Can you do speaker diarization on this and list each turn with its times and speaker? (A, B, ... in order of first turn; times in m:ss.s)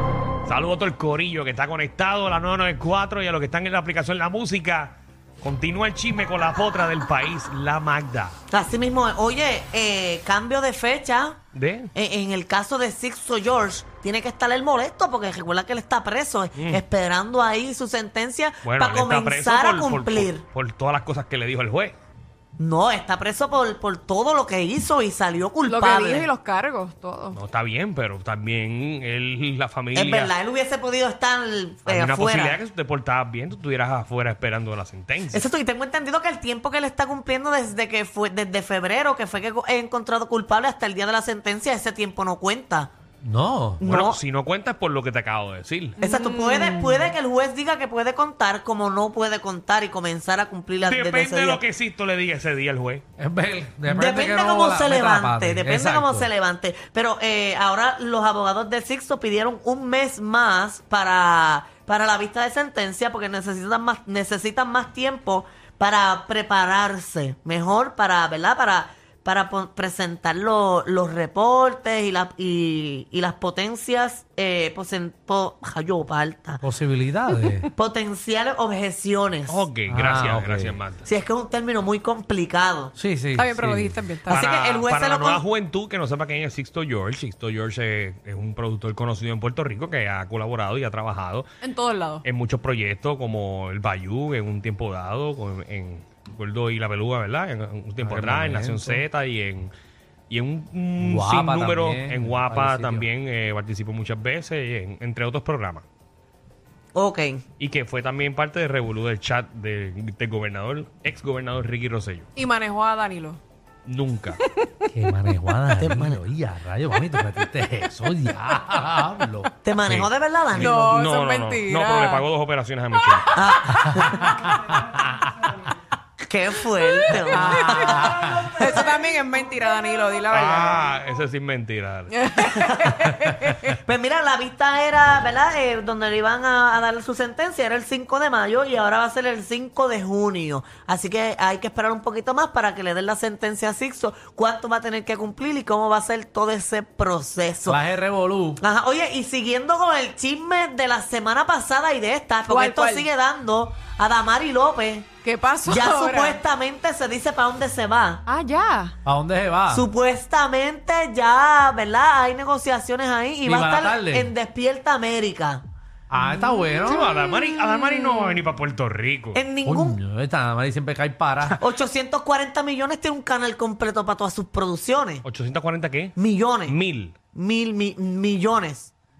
0:00.4-0:08.4 A
0:08.5-0:11.4 B
0:11.5-0:11.9 A
0:11.9-0:20.4 B
0:16.5-0:16.8 A
0:18.6-0:21.9 A
0:22.6-0:26.3 B
0:25.6-0:27.4 C
0:27.3-0:30.3 A
0:29.9-0:32.6 B
0:31.8-0:35.4 A
0:35.3-0:42.9 B
0:43.2-0:43.8 D
0:43.8-0:44.2 B
0:43.8-0:46.0 A
0:46.0-0:47.2 C
0:46.0-0:51.6 B
0:50.8-0:53.0 A
0:53.2-0:56.3 D
0:53.9-1:16.6 B
1:16.6-1:17.7 D
1:17.8-1:19.6 B
1:19.5-1:21.0 A
1:19.9-1:20.8 D
1:21.0-1:22.9 B
1:23.0-1:24.0 D
1:23.4-1:24.5 C
1:24.3-1:25.4 B
1:24.3-1:31.4 A
1:31.6-1:32.2 C
1:32.2-1:39.7 A
1:38.0-1:39.0 D
1:40.3-1:45.8 A
1:41.0-1:43.1 D
1:46.9-1:47.4 B
1:47.6-1:52.3 A
1:52.4-1:53.4 C
1:53.8-1:54.4 A
1:54.3-1:54.9 C
1:54.9-1:59.5 D
1:55.8-1:56.2 B
1:59.6-2:00.9 B
1:59.8-2:03.3 A
2:00.6-2:02.2 C
2:03.1-2:04.2 C
2:03.3-2:04.4 B
2:04.1-2:05.5 D
2:06.2-2:08.9 B
2:07.3-2:08.6 D
2:07.3-2:10.8 C
2:10.3-2:12.2 A
2:12.1-2:13.8 C
2:12.4-2:13.0 B
2:13.8-2:27.8 B
2:27.6-2:28.6 D
2:28.6-2:35.1 B
2:32.4-2:33.1 C
2:35.2-2:36.4 C
2:35.6-2:38.2 B
2:38.2-2:39.0 C
2:39.0-2:39.9 D
2:39.7-2:45.6 B
2:43.4-2:44.3 D
2:46.1-2:47.0 D
2:46.4-2:48.4 C
2:46.8-2:49.4 A
2:49.3-2:50.0 B
2:49.6-2:51.6 D
2:51.6-2:55.2 B
2:55.2-2:57.1 A
2:56.2-2:56.8 B
2:57.3-2:58.9 B